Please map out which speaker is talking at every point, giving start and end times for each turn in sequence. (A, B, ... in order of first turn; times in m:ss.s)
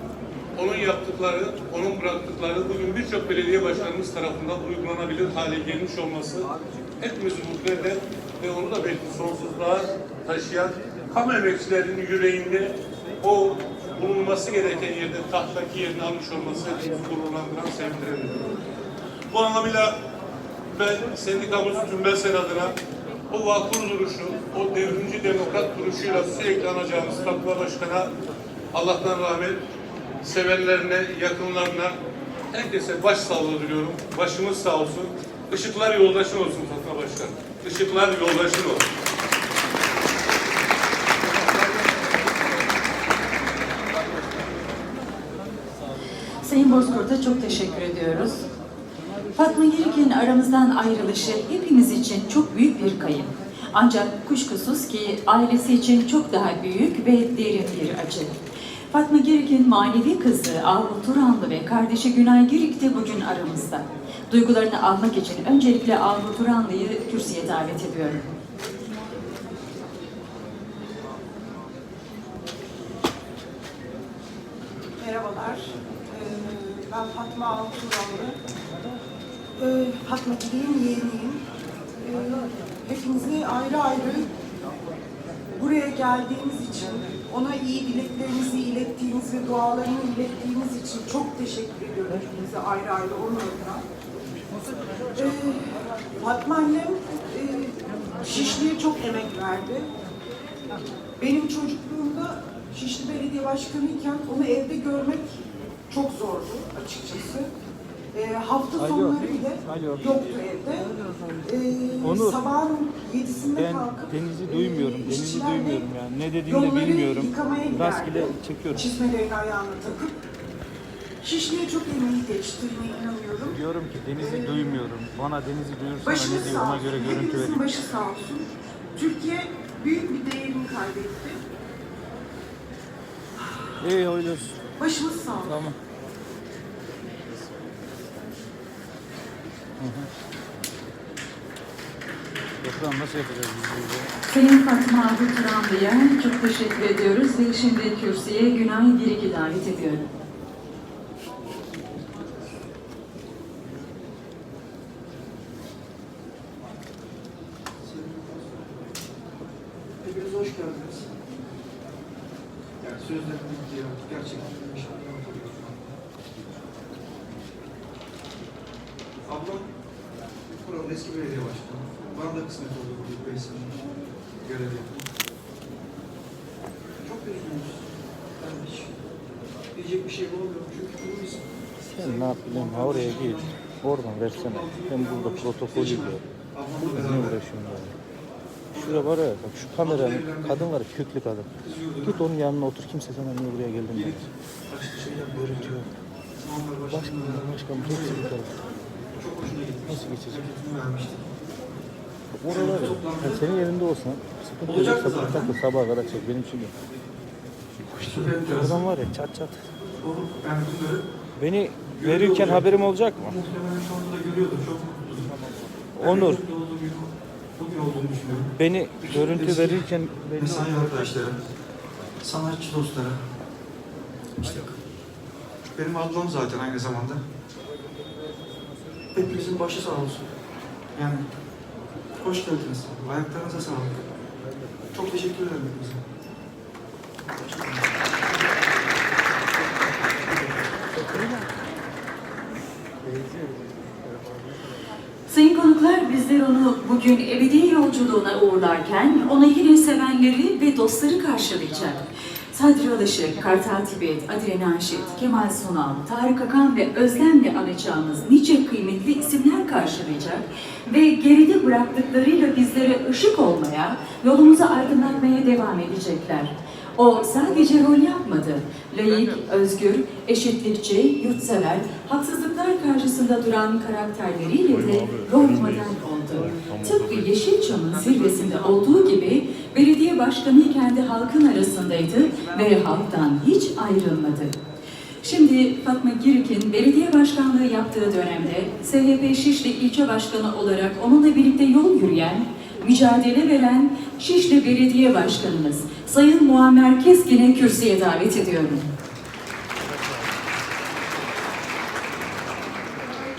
0:00.6-0:18.6 A
0:19.3-0:20.0 A
0:20.7-0:22.8 A
0:23.3-0:28.1 A
0:28.7-0:29.6 A
0:30.2-0:32.0 A
0:32.5-0:38.9 A
0:46.4-0:48.5 B
0:49.3-0:58.4 B
0:58.9-1:08.3 B
1:15.0-1:18.4 C
1:19.6-1:21.4 C
1:22.0-1:24.3 C
1:25.5-1:33.8 C
1:35.1-1:39.9 C
1:41.2-1:47.5 C
1:48.1-1:55.9 C
1:48.8-1:50.1 D
1:52.0-1:52.4 D
1:53.6-1:58.8 D
1:56.4-2:00.2 C
2:01.2-2:03.6 C
2:03.5-2:07.6 D
2:04.2-2:04.6 C
2:06.0-2:11.4 C
2:13.8-2:14.6 D
2:14.8-2:15.6 C
2:15.4-2:15.7 D
2:19.8-2:20.1 D
2:22.6-2:24.1 D
2:24.3-2:30.0 B
2:37.8-2:38.8 E
2:40.0-2:41.2 E
2:42.8-2:45.8 E
2:49.2-2:49.7 E
2:50.5-2:55.1 E
2:57.0-2:59.0 E
2:59.7-3:03.5 E
3:01.9-3:06.2 D
3:04.3-3:07.4 E
3:06.8-3:07.9 D
3:08.7-3:09.1 E
3:08.7-3:11.5 D
3:09.7-3:10.7 E
3:11.6-3:12.2 E
3:12.0-3:14.2 D
3:13.9-3:15.8 E
3:15.5-3:15.8 D
3:16.4-3:18.4 E
3:16.9-3:18.5 D
3:19.2-3:21.3 E
3:19.9-3:20.4 D
3:22.4-3:26.7 D
3:22.4-3:23.5 E
3:24.6-3:25.5 E
3:27.9-3:28.9 E
3:27.9-3:29.6 D
3:30.0-3:31.0 E
3:31.4-3:33.4 D
3:31.8-3:35.3 E
3:36.0-3:41.5 E
3:36.0-3:36.4 D
3:38.6-3:41.1 D
3:42.2-3:43.2 E
3:44.4-3:44.8 E
3:45.7-3:47.2 E
3:49.1-3:50.3 E
3:50.9-3:51.3 E
3:52.2-3:54.1 E
3:54.9-3:56.0 E
3:57.4-3:57.9 E
4:05.3-4:44.6 B
4:45.2-4:58.9 B